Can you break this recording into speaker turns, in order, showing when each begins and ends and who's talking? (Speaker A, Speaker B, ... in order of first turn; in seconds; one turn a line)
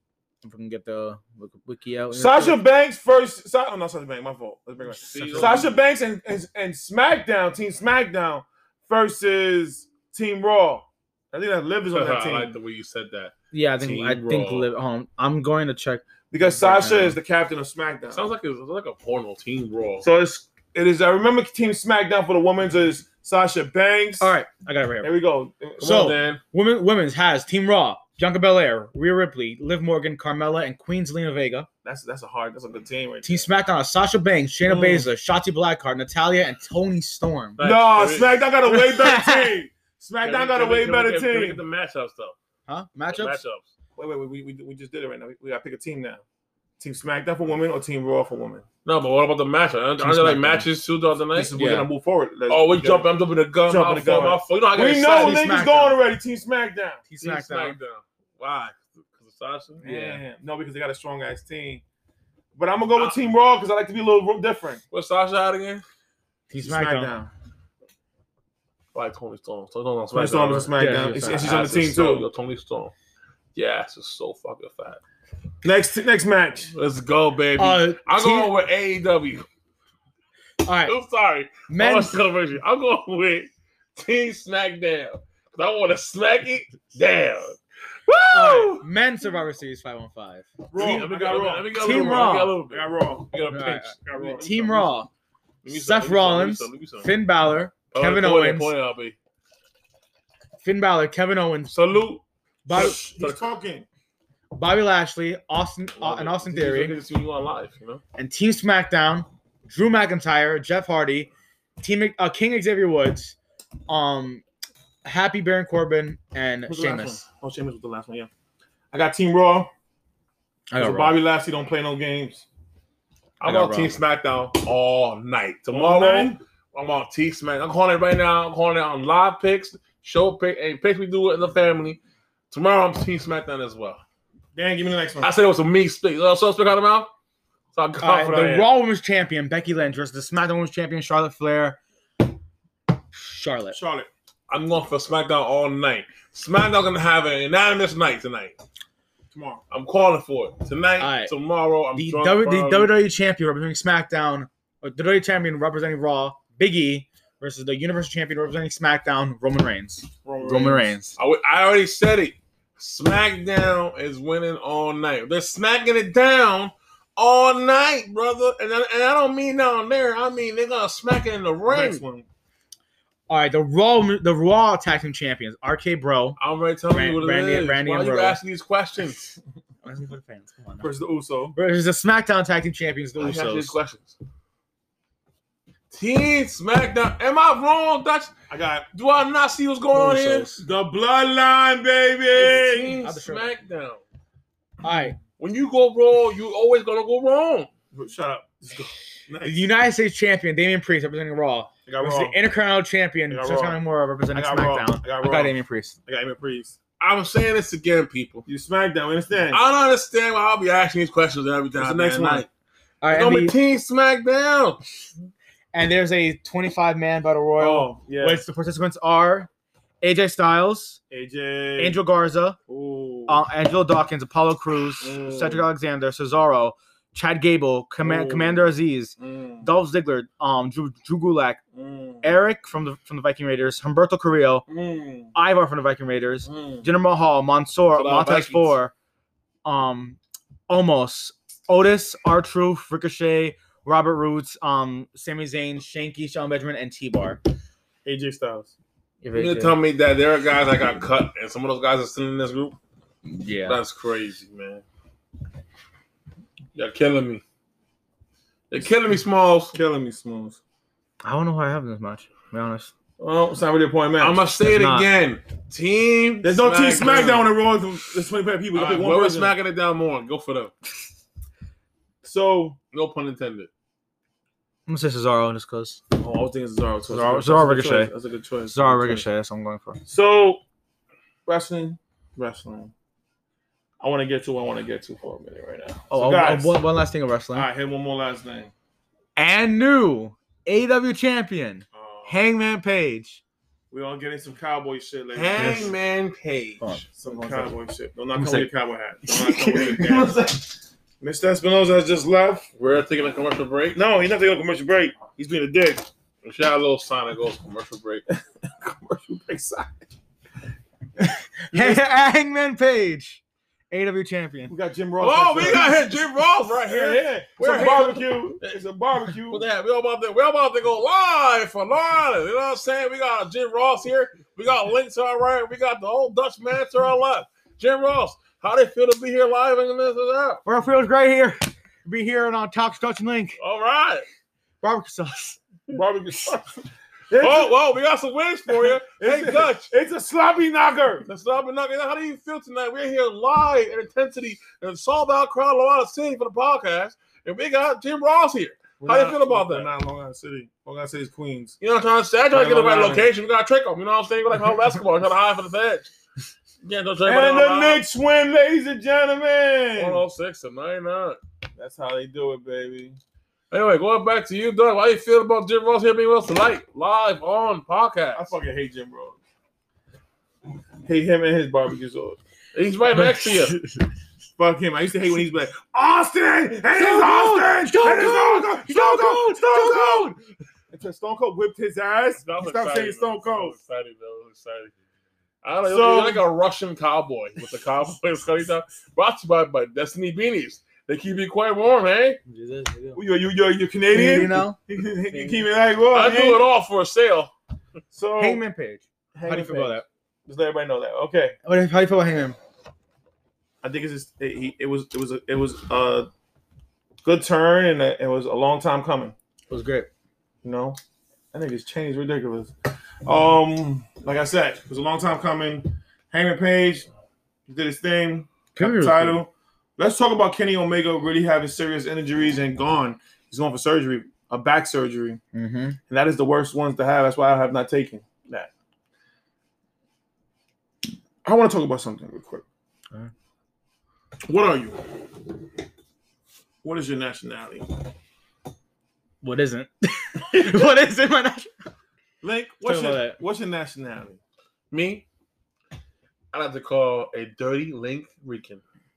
Speaker A: 0.4-2.6
Speaker B: 2.1-12.5
Speaker C: 5.0-5.7
Speaker A: 5.0-5.7
Speaker C: 11.9-14.7
Speaker A: 13.5-17.2
Speaker B: 16.3-18.2
Speaker C: 18.1-20.1
Speaker B: 20.0-24.3
Speaker A: 24.2-25.1
Speaker B: 25.0-26.1
Speaker C: 25.8-26.4
Speaker A: 25.8-31.7
Speaker B: 31.8-33.5
Speaker A: 33.2-37.6
Speaker B: 34.7-35.1
Speaker C: 37.6-38.4
Speaker B: 37.6-41.6
Speaker A: 38.7-39.5
Speaker C: 40.2-42.4
Speaker A: 42.7-43.4
Speaker C: 43.1-43.7
Speaker B: 44.0-46.2
Speaker B: 46.8-48.6
Speaker C: 48.9-51.6
Speaker A: 50.0-50.7
Speaker B: 51.3-53.1
Speaker A: 51.6-51.9
Speaker C: 52.5-55.4
Speaker B: 53.6-57.0
Speaker A: 55.1-56.0
Speaker A: 57.1-57.8
Speaker C: 57.2-59.8
Speaker B: 59.8-61.8
Speaker A: 59.8-60.2
Speaker B: 62.6-64.8
Speaker C: 64.9-65.8
Speaker A: 66.5-67.1
Speaker B: 66.6-67.3
Speaker C: 68.9-72.9
Speaker B: 70.1-72.3
Speaker A: 70.8-71.6
Speaker C: 73.5-75.0
Speaker B: 75.6-76.7
Speaker C: 76.7-79.5
Speaker A: 77.6-78.5
Speaker A: 80.6-81.0
Speaker C: 80.9-88.8
Speaker A: 81.7-82.2
Speaker A: 88.3-90.6
Speaker B: 90.7-93.3
Speaker C: 90.7-95.0
Speaker A: 91.7-92.6
Speaker A: 93.5-95.1
Speaker B: 94.0-94.5
Speaker C: 95.6-97.1
Speaker A: 95.7-98.7
Speaker C: 97.9-99.2
Speaker A: 100.6-101.7
Speaker C: 101.7-103.4
Speaker A: 102.7-103.0
Speaker B: 102.7-103.9
Speaker A: 104.5-107.0
Speaker C: 106.0-108.0
Speaker A: 108.2-113.4
Speaker A: 113.9-114.4
Speaker A: 115.0-117.2
Speaker B: 116.7-118.3
Speaker B: 118.9-119.7
Speaker A: 120.7-121.2
Speaker B: 120.8-122.5
Speaker C: 123.4-132.0
Speaker A: 123.4-124.0
Speaker B: 125.7-126.4
Speaker C: 132.5-134.0
Speaker B: 134.6-135.3
Speaker C: 135.2-137.1
Speaker C: 137.8-138.7
Speaker A: 138.0-141.8
Speaker A: 143.1-143.8
Speaker B: 143.7-144.1
Speaker C: 144.5-148.6
Speaker B: 149.3-149.6
Speaker C: 149.7-152.9
Speaker A: 151.0-151.3
Speaker A: 151.9-161.2
Speaker B: 160.2-160.9
Speaker C: 160.5-172.0
Speaker B: 171.7-172.3
Speaker A: 173.3-176.4
Speaker C: 176.4-179.3
Speaker A: 176.9-178.4
Speaker A: 179.8-180.9
Speaker B: 180.8-181.6
Speaker A: 181.6-183.8
Speaker C: 183.2-184.2
Speaker C: 185.9-188.3
Speaker B: 188.5-188.9
Speaker C: 188.9-190.5
Speaker A: 189.9-190.6
Speaker B: 190.6-192.9
Speaker C: 192.3-194.0
Speaker A: 192.9-193.6
Speaker A: 194.8-195.2
Speaker C: 195.4-197.7
Speaker B: 197.9-199.7
Speaker A: 199.4-206.0
Speaker B: 201.9-202.4
Speaker B: 203.3-203.8
Speaker B: 204.3-206.8
Speaker C: 207.0-208.5
Speaker B: 208.5-209.6
Speaker C: 209.5-212.5
Speaker B: 211.8-212.5
Speaker A: 213.0-213.6
Speaker C: 213.1-214.8
Speaker A: 215.7-219.5
Speaker B: 217.6-218.4
Speaker A: 220.0-221.0
Speaker B: 221.1-222.0
Speaker A: 221.8-222.6
Speaker B: 222.7-223.4
Speaker A: 223.3-231.6
Speaker B: 225.0-225.7
Speaker B: 228.0-228.6
Speaker B: 229.2-229.7
Speaker B: 231.8-232.4
Speaker A: 232.2-234.7
Speaker B: 234.7-235.3
Speaker A: 235.3-238.9
Speaker B: 236.4-236.9
Speaker C: 237.9-238.8
Speaker A: 239.7-240.2
Speaker A: 240.7-247.4
Speaker B: 248.1-248.7
Speaker A: 249.2-249.8
Speaker C: 249.3-252.8
Speaker A: 253.3-253.8
Speaker C: 253.6-254.8
Speaker C: 256.8-257.4
Speaker C: 258.7-259.7
Speaker B: 259.7-260.6
Speaker A: 261.2-262.9
Speaker B: 263.2-264.4
Speaker C: 264.2-267.5
Speaker A: 264.6-265.1
Speaker B: 266.4-269.5
Speaker C: 268.7-270.7
Speaker B: 272.2-272.8
Speaker C: 272.9-273.7
Speaker A: 274.9-276.0
Speaker B: 276.2-279.2
Speaker A: 277.1-278.1
Speaker A: 278.7-280.0
Speaker B: 280.1-280.6
Speaker B: 281.5-282.9
Speaker B: 284.0-286.8
Speaker A: 286.1-287.7
Speaker B: 287.5-288.7
Speaker A: 289.4-293.4
Speaker B: 293.9-295.9
Speaker C: 295.3-297.0
Speaker A: 296.8-297.7
Speaker B: 297.2-300.7
Speaker A: 298.4-298.7
Speaker A: 299.2-300.4
Speaker B: 301.2-302.7
Speaker C: 302.8-304.0
Speaker B: 303.9-306.1
Speaker C: 306.4-308.2
Speaker B: 308.7-310.1
Speaker A: 311.2-314.7
Speaker B: 311.7-312.0
Speaker B: 314.7-316.1
Speaker C: 315.2-318.8
Speaker B: 316.9-319.6
Speaker C: 319.3-330.6
Speaker A: 330.6-333.6
Speaker C: 333.6-334.2
Speaker A: 334.8-335.6
Speaker B: 335.9-337.7
Speaker C: 337.4-339.9
Speaker B: 338.9-341.3
Speaker C: 341.3-349.9
Speaker B: 349.0-351.8
Speaker C: 351.8-356.1
Speaker B: 352.5-353.3
Speaker C: 356.8-358.0
Speaker B: 357.2-360.2
Speaker C: 360.0-361.4
Speaker B: 361.8-363.2
Speaker C: 363.7-368.5
Speaker B: 368.4-369.4
Speaker B: 371.1-372.4
Speaker C: 372.7-373.8
Speaker A: 373.2-373.9
Speaker B: 374.6-380.4
Speaker A: 376.9-380.4
Speaker B: 380.9-383.8
Speaker C: 382.4-384.9
Speaker C: 385.6-392.4
Speaker B: 385.9-386.4
Speaker A: 392.5-393.2
Speaker B: 393.1-396.6
Speaker A: 394.1-394.8
Speaker C: 396.1-397.5
Speaker B: 398.1-398.6
Speaker A: 398.4-400.1
Speaker B: 399.4-401.6
Speaker A: 401.6-402.6
Speaker B: 403.8-406.3
Speaker B: 407.2-409.4
Speaker A: 409.7-410.1
Speaker B: 410.6-411.0
Speaker B: 411.5-412.7
Speaker B: 413.3-417.1
Speaker B: 417.7-425.4
Speaker A: 418.8-419.4
Speaker A: 425.5-426.0
Speaker B: 426.1-428.7
Speaker B: 431.4-432.6
Speaker B: 434.5-435.0
Speaker B: 436.8-437.9
Speaker A: 439.4-441.7
Speaker B: 442.4-444.4
Speaker A: 442.8-443.4
Speaker C: 444.9-445.3
Speaker C: 446.5-448.8